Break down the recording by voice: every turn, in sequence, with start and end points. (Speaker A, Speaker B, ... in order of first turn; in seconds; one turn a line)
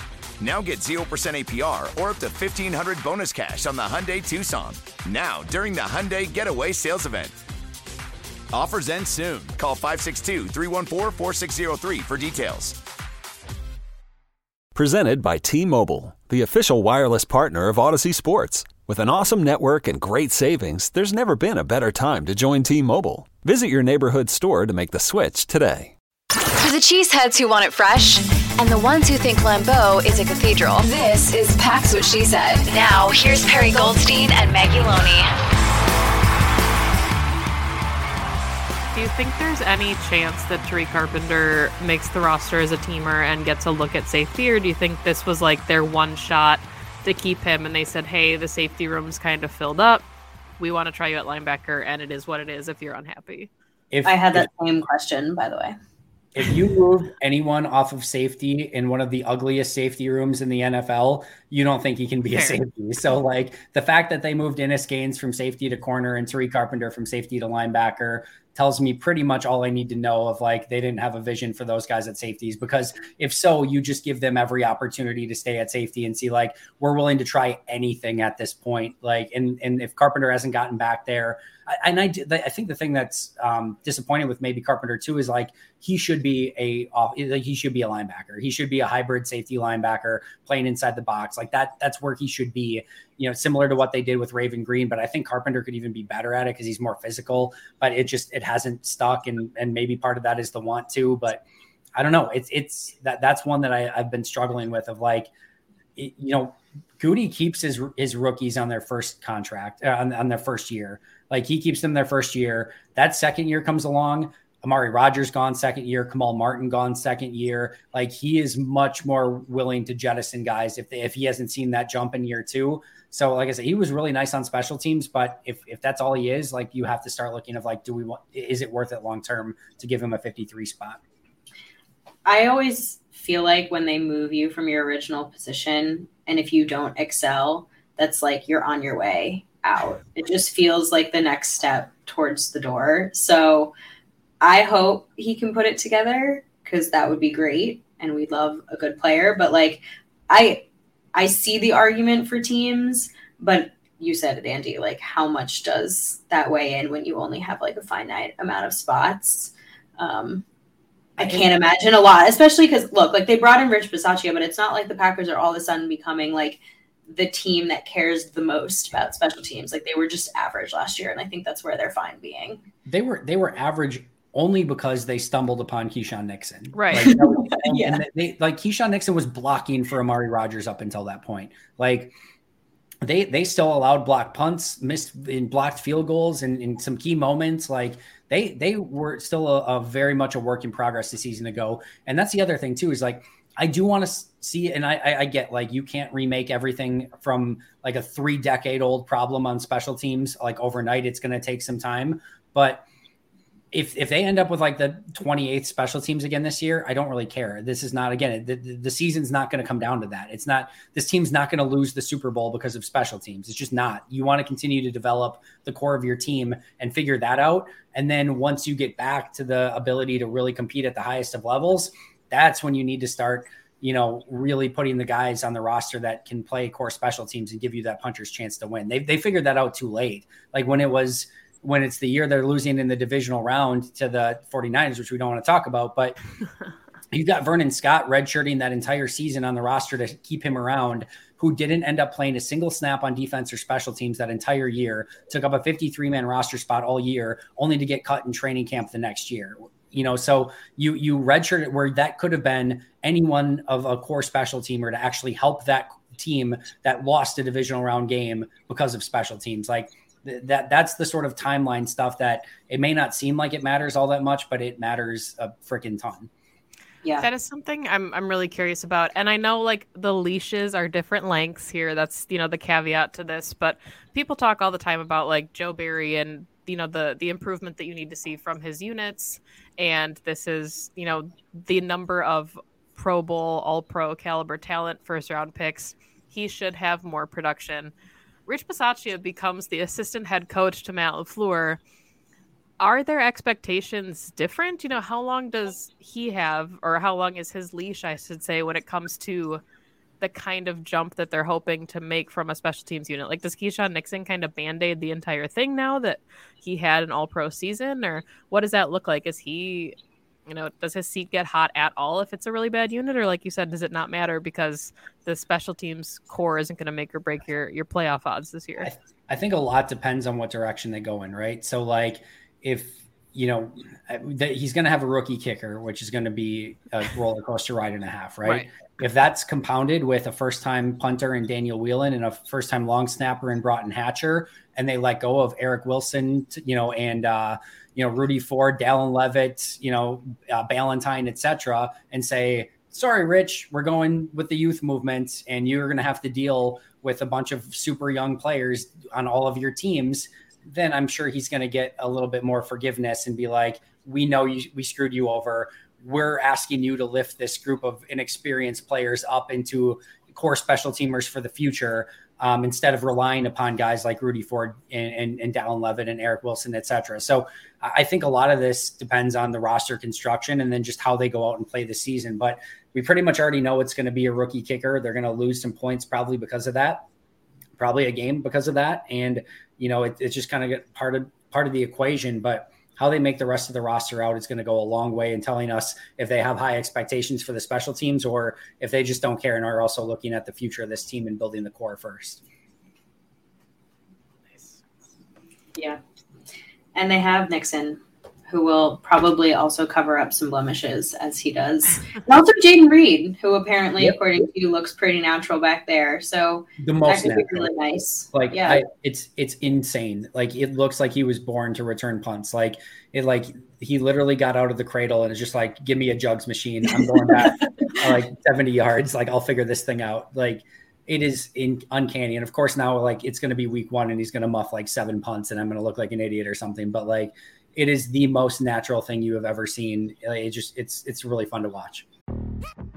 Speaker A: 0.4-7.4
Speaker A: 8.5-12.8
Speaker B: 14.8-25.9
Speaker C: 26.6-35.3
Speaker D: 38.9-50.1
Speaker D: 50.6-53.5
Speaker E: 53.9-54.5
Speaker F: 54.0-55.8
Speaker E: 56.4-101.4
Speaker D: 62.3-62.6
Speaker E: 102.0-105.3
Speaker E: 106.0-131.0
Speaker F: 132.2-143.7
Speaker F: 144.4-160.4
Speaker F: 161.2-172.6
Speaker E: 161.2-161.5
Speaker E: 172.9-182.1
Speaker D: 176.7-177.1
Speaker F: 177.0-178.0
Speaker E: 183.0-202.9
Speaker E: 203.7-236.2
Speaker E: 237.1-266.3
Speaker D: 267.2-287.9
Speaker D: 288.5-291.8
Speaker D: 292.8-299.6
Speaker D: 300.2-310.0
Speaker D: 310.5-318.9
Speaker E: 318.8-377.1
Speaker E: 377.8-392.4
Speaker F: 396.9-408.8
Speaker E: 406.8-407.8
Speaker E: 408.3-432.1
Speaker F: 417.0-417.5